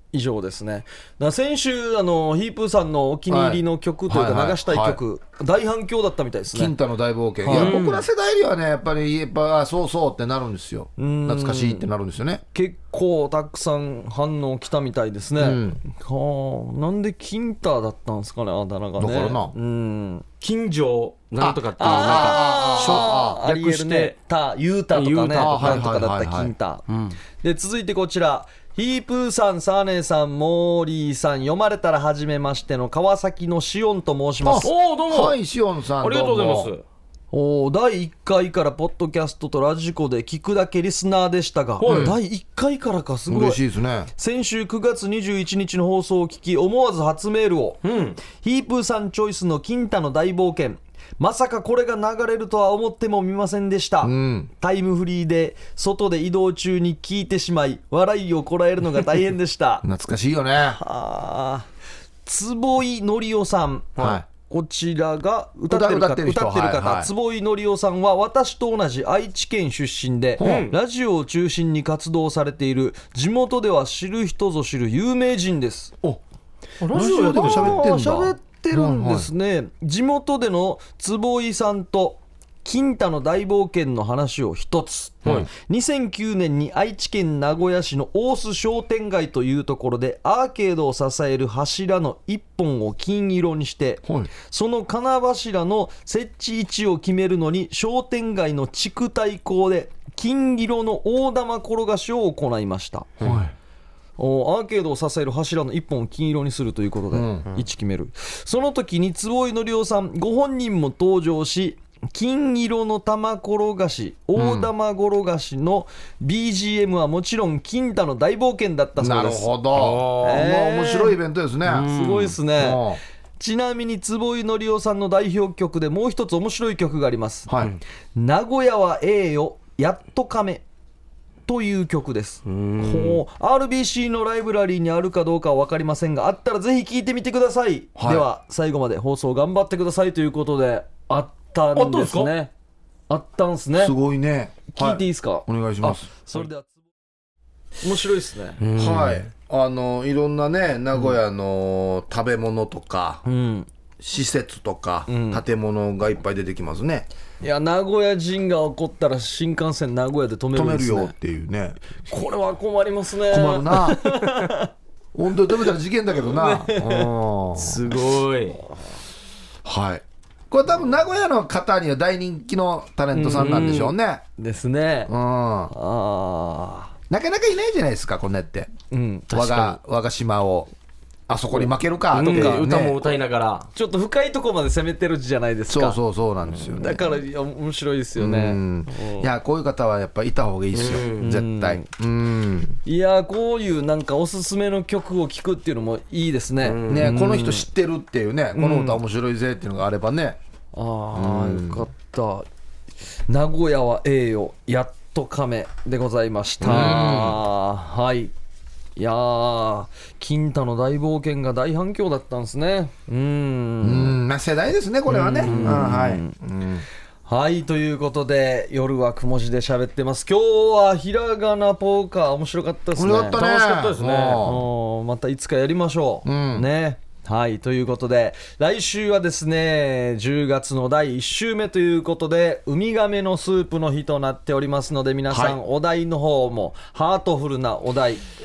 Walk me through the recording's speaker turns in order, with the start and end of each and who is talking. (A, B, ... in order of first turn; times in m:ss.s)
0:00.1-0:06.7 A
0:03.3-0:05.0 B
0:06.5-0:12.4 B
0:07.4-0:07.8 A
0:07.5-0:08.1 C
0:11.0-0:11.9 A
0:12.5-0:20.3 A
0:15.4-0:15.8 B
0:19.0-0:19.5 B
0:20.4-0:24.2 C
0:21.4-0:23.4 B
0:21.8-0:26.9 A
0:24.9-0:25.9 C
0:25.4-0:26.5 B
0:26.9-0:27.2 C
0:27.4-0:34.7 A
0:34.4-0:36.7 B
0:34.6-0:35.4 C
0:36.0-0:36.8 C
0:37.3-0:43.6 A
0:41.8-0:42.2 C
0:41.9-0:42.2 B
0:43.3-0:44.1 B
0:44.2-0:59.8 A
0:47.8-0:48.2 C
0:54.0-0:54.5 B
0:59.8-1:00.8 B
1:00.7-1:01.7 A
1:02.2-1:03.9 A
1:04.0-1:04.2 C
1:04.0-1:04.2 B
1:04.5-1:16.0 A
1:05.7-1:07.1 B
1:10.4-1:10.7 B
1:10.4-1:10.8 C
1:16.8-1:17.8 C
1:16.9-1:19.3 B
1:17.0-1:43.1 A
1:25.2-1:25.5 B
1:43.2-1:43.5 B
1:44.2-1:59.5 A
1:47.1-1:47.5 B
1:54.4-1:54.7 B
1:59.0-2:01.9 B
1:59.7-2:00.5 C
2:00.2-2:01.2 A
2:01.6-2:02.4 C
2:01.9-2:02.8 A
2:02.6-2:03.0 B
2:03.4-2:07.5 A
2:07.5-2:07.8 B
2:08.2-2:10.6 A
2:11.5-2:22.5 A
2:12.5-2:13.2 C
2:18.0-2:18.3 B
2:21.7-2:22.3 C
2:23.1-2:24.0 A
2:23.8-2:26.1 B
2:24.7-2:26.7 A
2:27.8-2:28.6 A
2:28.6-2:29.2 C
2:28.8-2:33.2 B
2:33.2-2:33.7 A
2:34.0-2:37.1 B
2:35.1-2:35.4 A
2:37.4-2:41.1 A
2:40.5-2:41.8 B
2:42.1-2:44.7 A
2:43.3-2:44.2 B
2:45.1-2:47.9 B
2:46.3-2:47.1 A
2:47.6-2:48.6 C
2:49.6-2:54.2 B
2:53.1-2:55.1 A
2:55.1-2:55.7 B
2:55.7-2:56.9 A
2:57.1-2:58.7 B
2:58.9-2:59.3 A
2:59.3-2:59.8 C
2:59.3-3:00.7 B
3:01.3-3:03.1 B
3:01.5-3:02.6 A
3:02.1-3:03.7 C
3:03.8-3:06.0 A
3:05.7-3:07.1 B
3:06.7-3:09.3 A
3:08.2-3:12.8 B
3:10.7-3:11.4 C
3:11.2-3:11.9 A
3:12.8-3:17.7 A
3:16.6-3:17.2 C
3:16.9-3:20.4 B
3:18.6-3:19.0 A
3:20.7-3:22.5 A
3:21.1-3:21.9 B
3:23.3-3:28.3 A
3:26.6-3:27.4 B
3:29.0-3:34.2 A
3:33.8-3:36.8 B
3:35.1-3:36.4 A
3:35.2-3:35.9 C
3:37.3-3:43.4 A
3:43.0-3:44.6 B
3:43.3-3:44.4 C
3:44.4-3:58.2 A
3:46.2-3:46.7 B
3:55.3-3:55.6 B